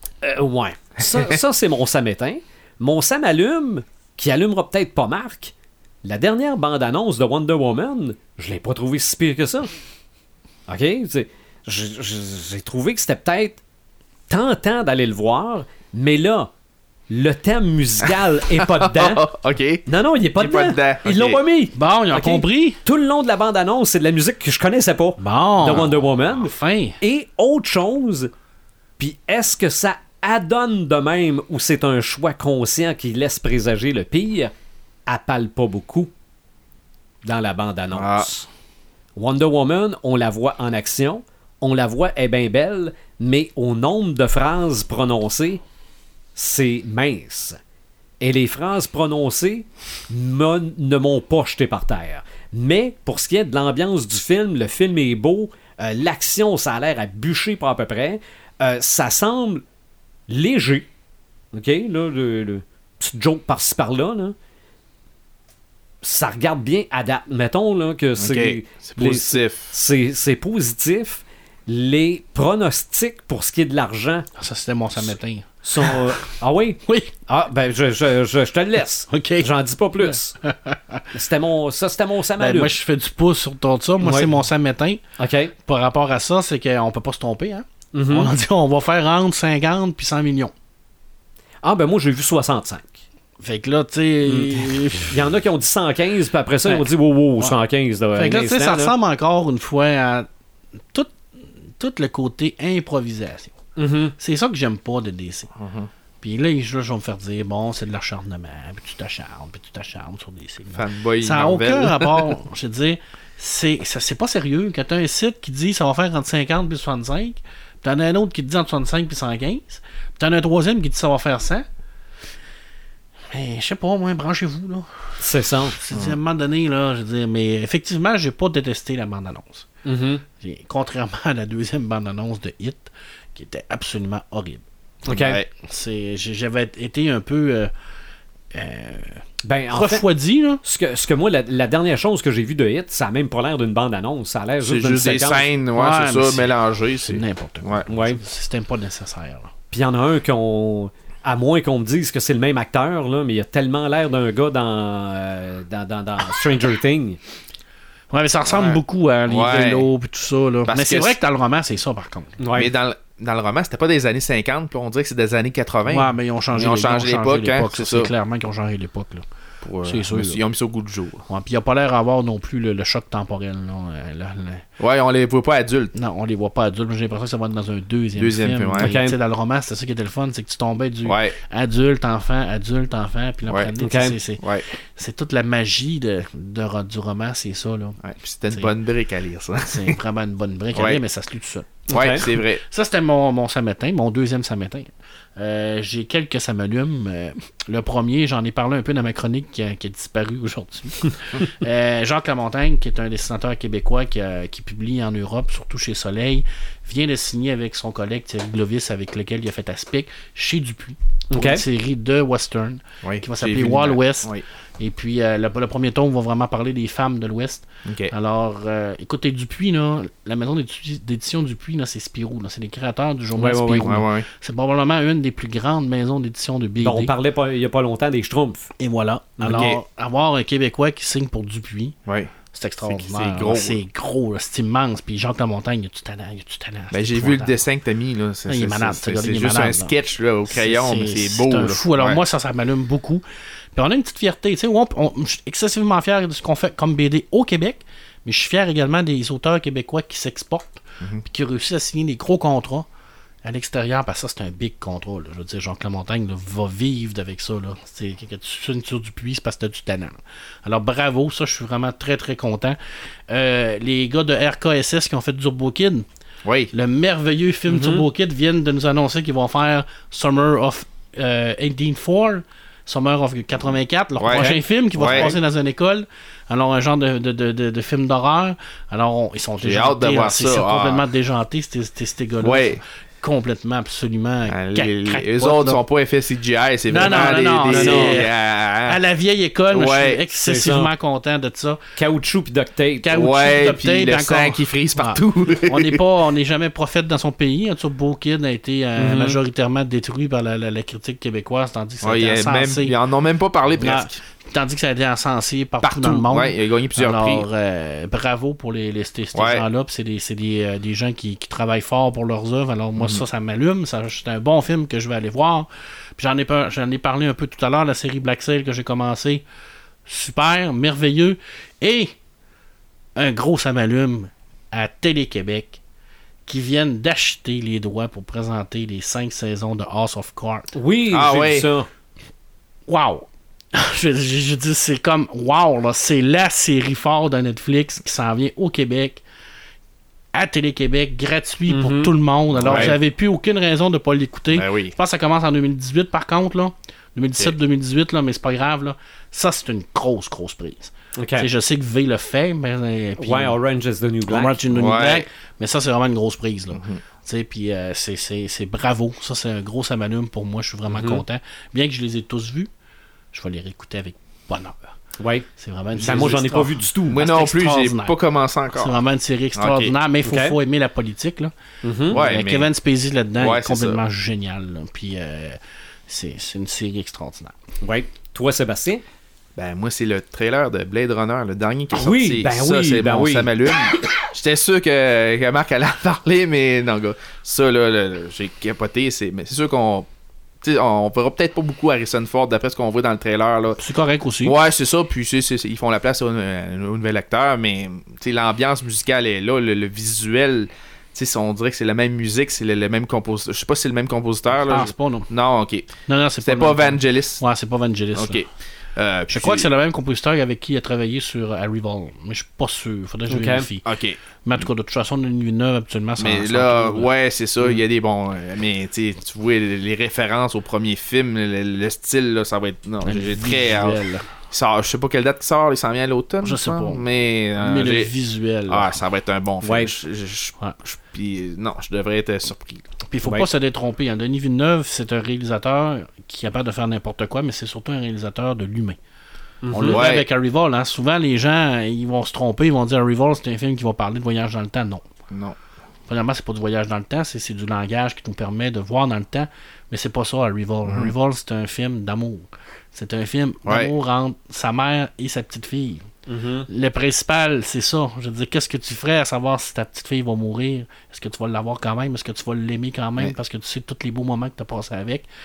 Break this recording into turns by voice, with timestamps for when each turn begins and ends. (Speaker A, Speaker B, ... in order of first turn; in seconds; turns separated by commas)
Speaker A: 0.2-9.7, Speaker A: 10.7-13.6, Speaker A: 14.3-16.5, Speaker A: 17.1-19.2, Speaker B: 18.6-19.9, Speaker A: 19.9-28.3, Speaker B: 20.4-21.4, Speaker C: 21.7-22.8, Speaker C: 25.2-27.0, Speaker A: 29.0-34.5, Speaker A: 35.1-36.1, Speaker A: 37.2-38.5, Speaker B: 37.9-38.3, Speaker A: 39.2-45.6, Speaker A: 46.4-47.6, Speaker A: 48.2-59.6, Speaker A: 60.3-60.9, Speaker A: 61.5-64.3, Speaker A: 66.0-74.3, Speaker B: 68.2-69.7, Speaker C: 74.4-76.1, Speaker A: 75.6-80.3, Speaker C: 76.9-77.1, Speaker C: 79.1-81.0, Speaker A: 81.1-82.7, Speaker C: 82.4-85.0, Speaker A: 84.0-84.3, Speaker A: 85.2-85.5, Speaker C: 85.6-90.5, Speaker A: 87.9-88.3, Speaker A: 91.6-93.0, Speaker C: 93.4-95.2, Speaker A: 94.3-98.9, Speaker C: 98.2-100.3, Speaker C: 101.8-103.5, Speaker A: 103.8-104.1, Speaker C: 104.2-105.5, Speaker B: 105.6-105.9, Speaker C: 106.2-121.7, Speaker B: 110.7-112.3, Speaker C: 123.3-129.7, Speaker A: 125.2-125.8, Speaker B: 125.9-126.2, Speaker A: 129.8-130.2, Speaker C: 130.4-134.6, Speaker A: 135.1-135.4, Speaker B: 135.1-135.5, Speaker C: 135.6-137.7, Speaker C: 138.5-140.6, Speaker A: 139.4-140.1, Speaker A: 140.6-145.5, Speaker B: 144.6-147.8, Speaker C: 145.7-149.5, Speaker A: 147.9-148.2, Speaker A: 149.7-157.2, Speaker C: 158.1-162.4, Speaker B: 158.4-159.9, Speaker B: 160.7-161.2, Speaker A: 162.4-162.7, Speaker B: 162.5-168.1, Speaker C: 165.9-169.2, Speaker B: 169.6-171.2, Speaker C: 169.8-170.4, Speaker C: 171.3-174.7, Speaker B: 174.8-175.9, Speaker C: 175.9-184.4, Speaker B: 178.2-178.9, Speaker A: 178.8-179.2, Speaker B: 181.1-181.4, Speaker A: 183.8-184.2, Speaker B: 184.4-184.7, Speaker C: 185.0-188.7, Speaker B: 188.0-190.0, Speaker C: 189.7-227.1, Speaker B: 190.8-191.0, Speaker A: 191.9-192.3, Speaker B: 191.9-192.6, Speaker A: 211.3-211.6, Speaker B: 213.0-214.4, Speaker B: 217.9-218.1, Speaker A: 223.4-224.0, Speaker B: 223.8-224.3, Speaker A: 226.8-228.7, Speaker C: 228.8-232.0, Speaker A: 229.4-229.8, Speaker B: 229.5-229.8, Speaker B: 232.1-232.3, Speaker C: 232.5-237.6, Speaker B: 232.8-233.8, Speaker B: 236.9-242.2, Speaker C: 238.5-239.9, Speaker C: 240.5-243.2, Speaker C: 243.8-252.9, Speaker C: 253.4-262.8, Speaker C: 263.3-266.1, Speaker B: 266.4-266.7, Speaker C: 266.7-285.8, Speaker A: 267.7-268.1, Speaker B: 274.2-275.4, Speaker A: 274.3-274.6, Speaker B: 279.6-281.0, Speaker B: 282.4-282.8, Speaker B: 284.5-289.0, Speaker C: 286.9-291.8, Speaker A: 287.7-288.2, Speaker B: 289.7-290.2, Speaker A: 290.4-290.9, Speaker A: 292.0-293.1, Speaker C: 293.0-302.9, Speaker B: 293.1-296.0, Speaker A: 299.0-299.4, Speaker B: 302.0-304.2, Speaker C: 303.8-319.4, Speaker B: 305.8-307.5, Speaker B: 309.4-309.6, Speaker B: 313.0-313.2, Speaker C: 320.1-322.1, Speaker C: 323.2-325.8, Speaker C: 326.5-330.7, Speaker A: 330.7-331.9, Speaker B: 331.1-331.7, Speaker C: 332.9-339.2, Speaker C: 340.3-353.6, Speaker A: 341.7-342.1, Speaker B: 342.5-343.0, Speaker A: 342.6-343.0, Speaker B: 344.5-344.9, Speaker A: 351.2-351.5, Speaker A: 353.2-354.6, Speaker C: 354.3-362.7, Speaker B: 354.7-355.2, Speaker B: 356.7-357.0, Speaker A: 360.9-361.2, Speaker C: 363.3-364.8, Speaker A: 365.2-367.2, Speaker C: 365.6-368.2, Speaker B: 367.1-368.9, Speaker C: 368.7-371.5, Speaker B: 369.6-369.9, Speaker A: 370.2-370.6, Speaker A: 371.8-372.2, Speaker C: 372.1-377.5, Speaker B: 372.1-372.7, Speaker B: 373.4-374.0, Speaker A: 377.8-379.0, Speaker B: 379.6-390.1, Speaker A: 381.9-383.5, Speaker B: 390.6-393.8, Speaker C: 393.8-394.6, Speaker B: 394.4-405.9, Speaker C: 404.5-405.3, Speaker C: 406.1-408.4, Speaker B: 406.4-407.4, Speaker B: 408.2-409.7, Speaker C: 409.3-413.9, Speaker A: 413.3-413.7, Speaker B: 413.9-414.2, Speaker C: 414.4-417.1, Speaker B: 416.2-424.0, Speaker C: 423.0-424.2, Speaker B: 424.5-428.1, Speaker C: 426.4-427.0, Speaker C: 427.6-429.0, Speaker B: 428.7-432.9, Speaker A: 429.6-429.9, Speaker C: 433.1-439.0, Speaker A: 439.6-440.0, Speaker C: 439.7-445.1, Speaker B: 439.9-440.2, Speaker B: 445.3-445.6, Speaker C: 446.1-456.0, Speaker B: 450.9-451.1, Speaker B: 453.7-453.9, Speaker A: 456.3-456.7, Speaker C: 456.7-465.2